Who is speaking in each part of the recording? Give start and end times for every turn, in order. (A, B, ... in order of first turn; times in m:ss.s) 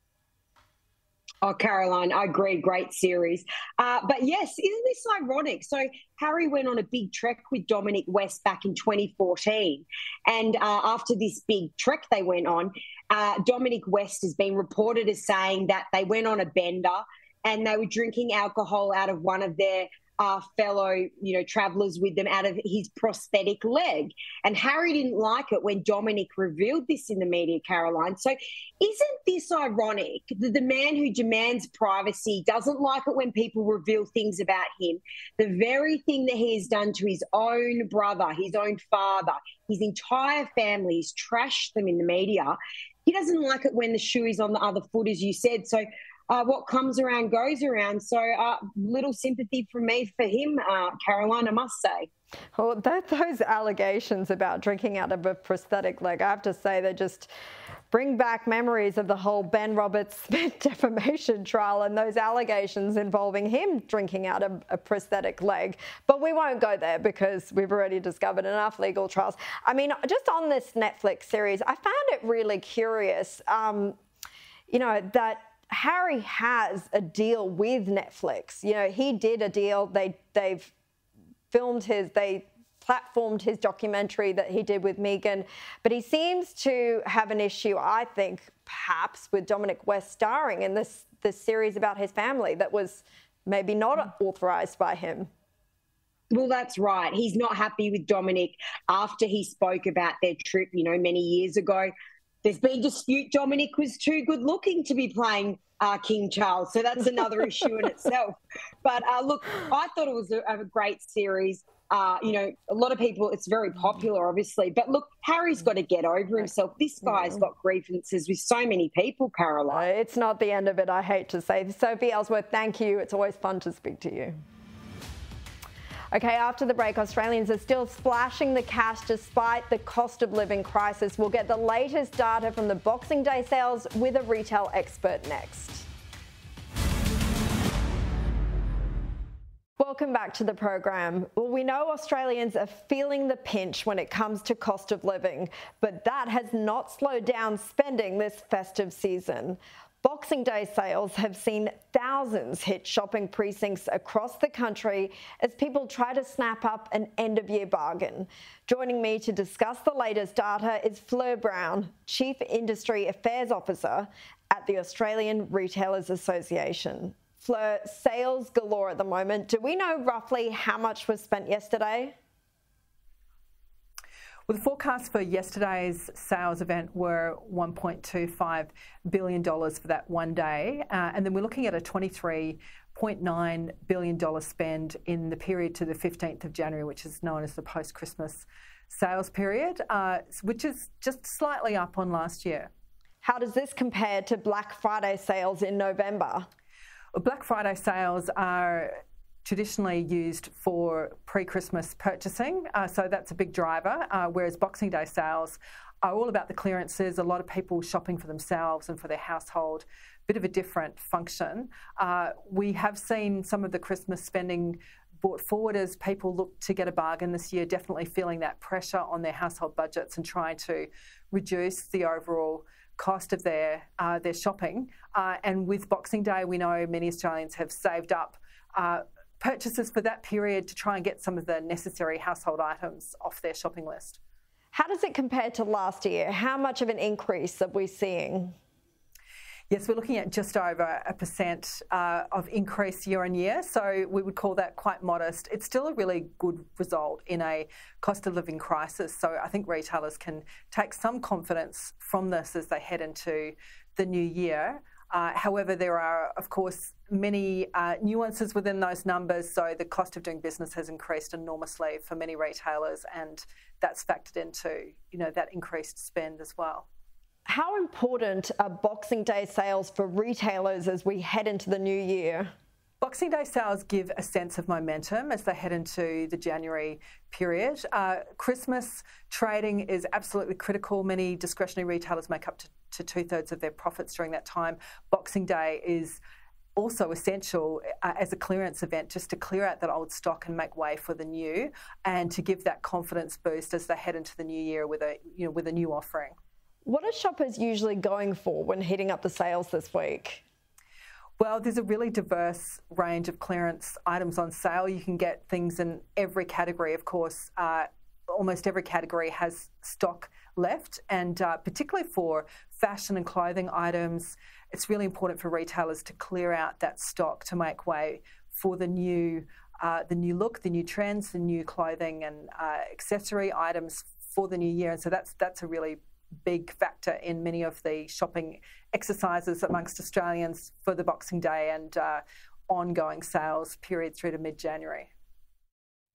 0:01.4-0:52.1 A
0:52.6-0:57.3 B
0:57.9-1:14.0 B
1:14.7-1:20.7 B
1:21.5-1:35.3 B
1:36.3-1:41.9 A
1:42.4-1:59.8 A
1:59.7-2:04.4 B
2:06.1-2:15.9 B
2:19.8-2:52.2 B
2:54.5-3:12.7 C
3:13.2-3:16.5 B
3:17.1-3:54.2 C
3:54.7-3:58.6 B
3:59.7-4:26.9 C
4:27.5-4:32.5 B
4:33.0-4:46.2 C
4:46.8-4:56.4 C
4:56.9-5:00.4 B
5:01.4-5:35.1 C